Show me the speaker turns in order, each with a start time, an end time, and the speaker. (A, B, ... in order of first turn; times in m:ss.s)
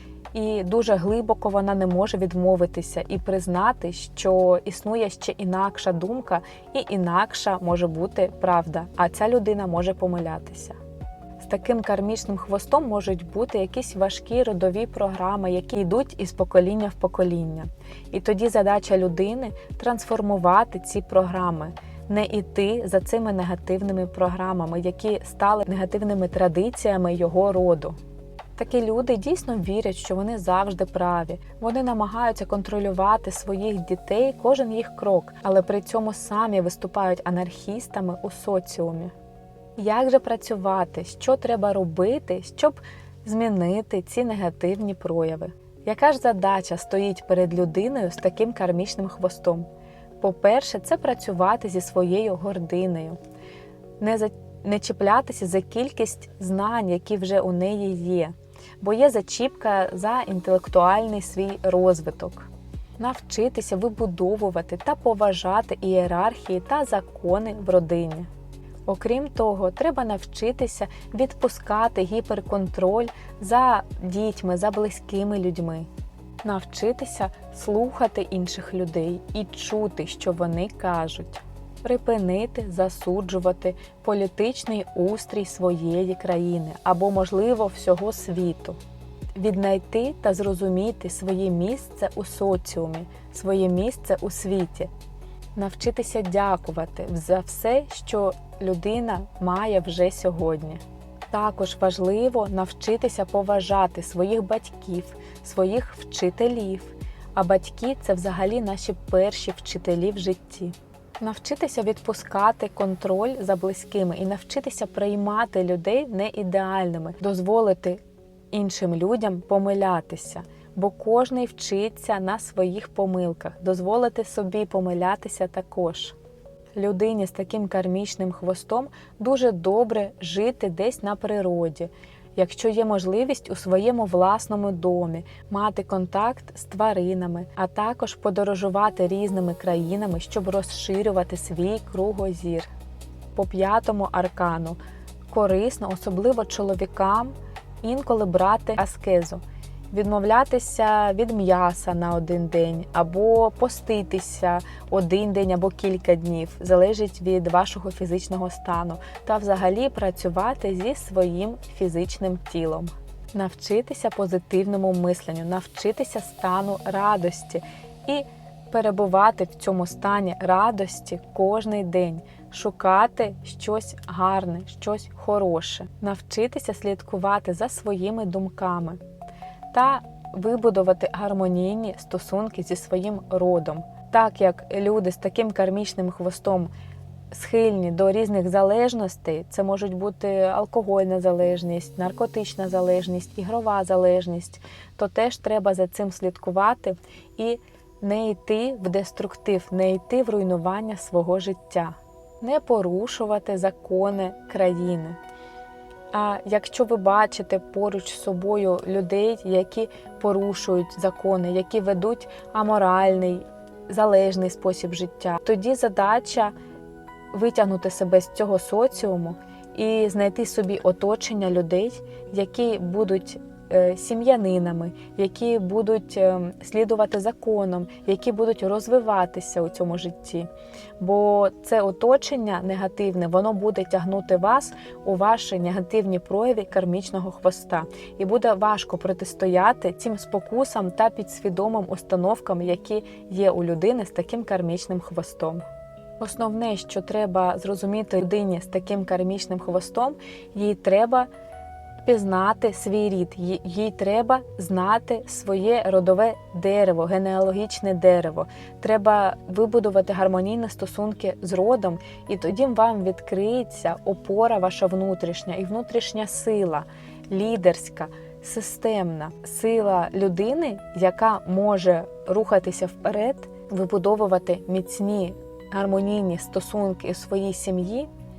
0:00.3-0:10.8 A
0:11.4-0:28.0 A
0:28.6-0:39.1 A
0:39.8-0:49.7 A
0:50.2-0:53.2 A
0:54.0-1:08.3 A
1:08.9-1:15.9 A
1:16.4-1:28.8 A
1:29.3-1:34.9 A
1:35.6-1:58.0 A
1:58.5-2:06.2 A
2:06.8-2:22.7 A
2:23.3-2:24.8 A
2:25.3-2:59.0 A
2:59.7-3:06.7 A
3:07.3-3:25.2 A
3:26.1-3:36.5 A
3:37.3-3:50.5 A
3:51.0-4:05.6 A
4:06.2-4:11.3 A
4:12.0-4:38.1 A